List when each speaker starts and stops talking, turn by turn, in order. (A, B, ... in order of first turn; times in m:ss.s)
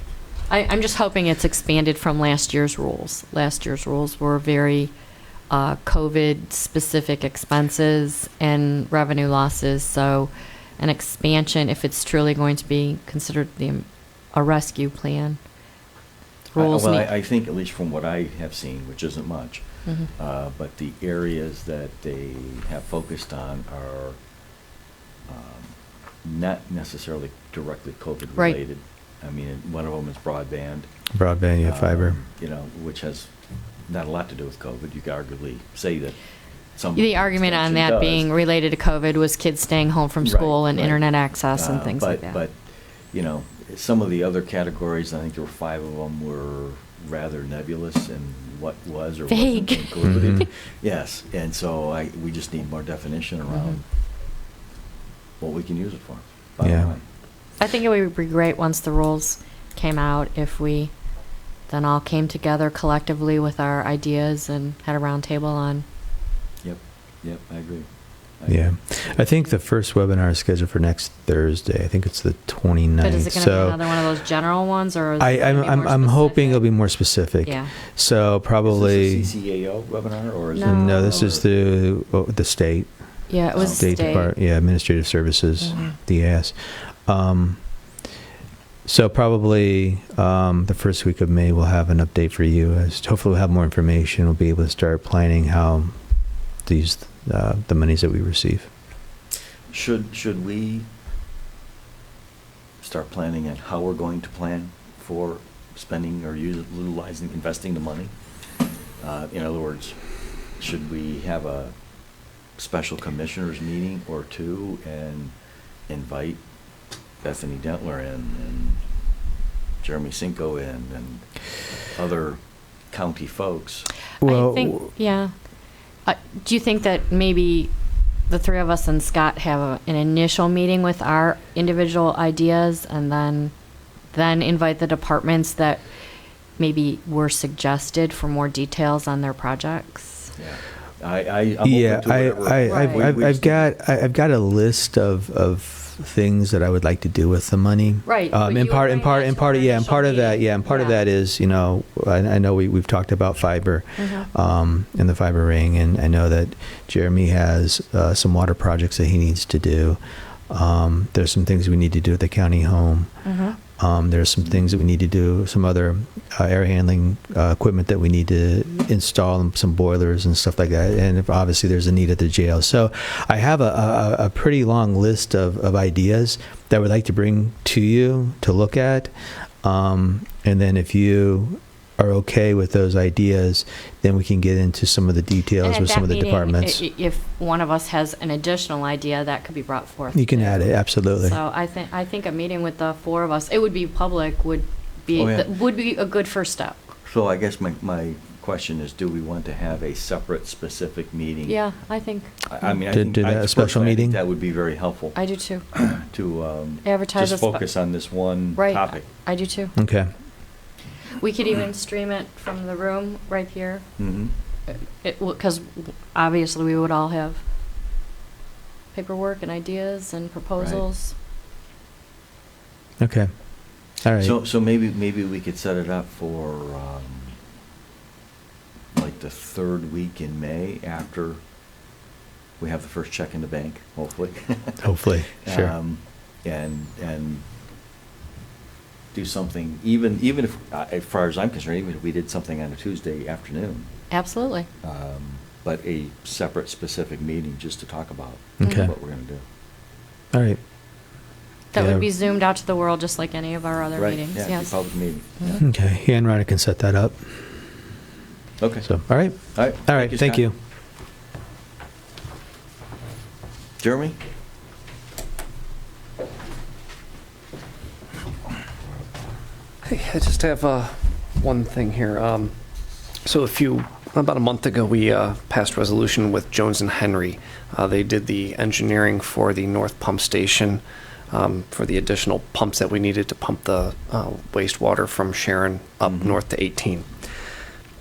0:00.5-0:04.9 A
0:05.5-0:15.4 A
0:16.5-0:17.1 A
0:16.6-0:24.2 B
0:25.3-0:30.9 B
0:31.1-0:32.2 C
0:31.6-0:33.3 B
0:33.9-0:36.2 B
0:36.8-0:38.3 B
0:37.0-0:42.4 A
0:40.2-0:53.8 B
0:49.3-0:50.5 A
0:50.0-0:50.4 C
0:53.5-0:53.8 A
0:55.4-0:57.0 B
0:56.6-0:56.9 C
0:57.6-1:00.9 A
1:01.7-1:05.8 A
1:06.6-1:07.9 B
1:08.4-1:09.3 B
1:08.5-1:13.9 C
1:13.0-1:16.7 A
1:15.2-1:19.3 C
1:17.4-1:17.8 A
1:18.6-1:21.4 B
1:20.6-1:21.2 A
1:20.6-1:22.9 C
1:23.3-1:24.3 A
1:23.6-1:24.2 B
1:23.6-1:26.6 C
1:25.6-1:25.9 A
1:27.1-1:27.6 C
1:28.9-1:35.9 C
1:36.7-1:38.7 C
1:39.7-1:40.9 B
1:42.8-1:48.1 B
1:49.0-1:51.8 B
1:52.6-1:55.4 B
1:55.9-1:56.4 B
1:57.2-1:58.8 B
1:59.8-2:03.9 B
2:04.2-2:05.3 A
2:04.2-2:04.9 C
2:06.1-2:07.7 A
2:08.3-2:13.5 A
2:14.1-2:15.8 A
2:16.6-2:20.3 A
2:20.4-2:23.7 B
2:21.6-2:40.0 C
2:22.6-2:23.2 A
2:28.0-2:31.0 A
2:34.0-2:34.3 A
2:40.5-2:43.1 C
2:43.2-2:43.6 A
2:43.8-2:59.1 C
2:59.6-3:06.8 C
3:05.6-3:16.8 A
3:10.1-3:11.4 C
3:15.1-3:15.5 B
3:17.1-3:21.6 B
3:21.5-3:22.3 A
3:22.4-3:25.2 B
3:22.9-3:24.2 C
3:25.2-3:25.6 A
3:25.7-3:29.0 B
3:26.8-3:27.6 A
3:28.6-3:29.8 A
3:29.8-3:30.1 C
3:31.2-3:33.8 A
3:34.0-3:34.3 B
3:34.7-3:37.4 A
3:38.9-3:41.1 A
3:40.6-3:40.8 B
3:43.0-3:43.3 C
3:44.0-3:44.4 C
3:44.2-3:47.4 B
3:48.9-3:51.4 B
3:52.6-3:57.4 B
3:54.8-3:55.8 C
3:59.1-4:03.9 B
4:04.1-4:04.7 A
4:04.8-4:09.4 B
4:08.6-4:08.9 C
4:08.6-4:08.9 A
4:10.3-4:10.6 C
4:11.7-4:14.8 A
4:11.8-4:12.1 C
4:14.0-4:15.6 B
4:15.6-4:17.2 C
4:18.6-4:20.5 B
4:18.9-4:20.5 C
4:23.8-4:24.2 B
4:29.8-4:32.5 D
4:33.2-4:47.1 D
4:46.0-4:46.4 B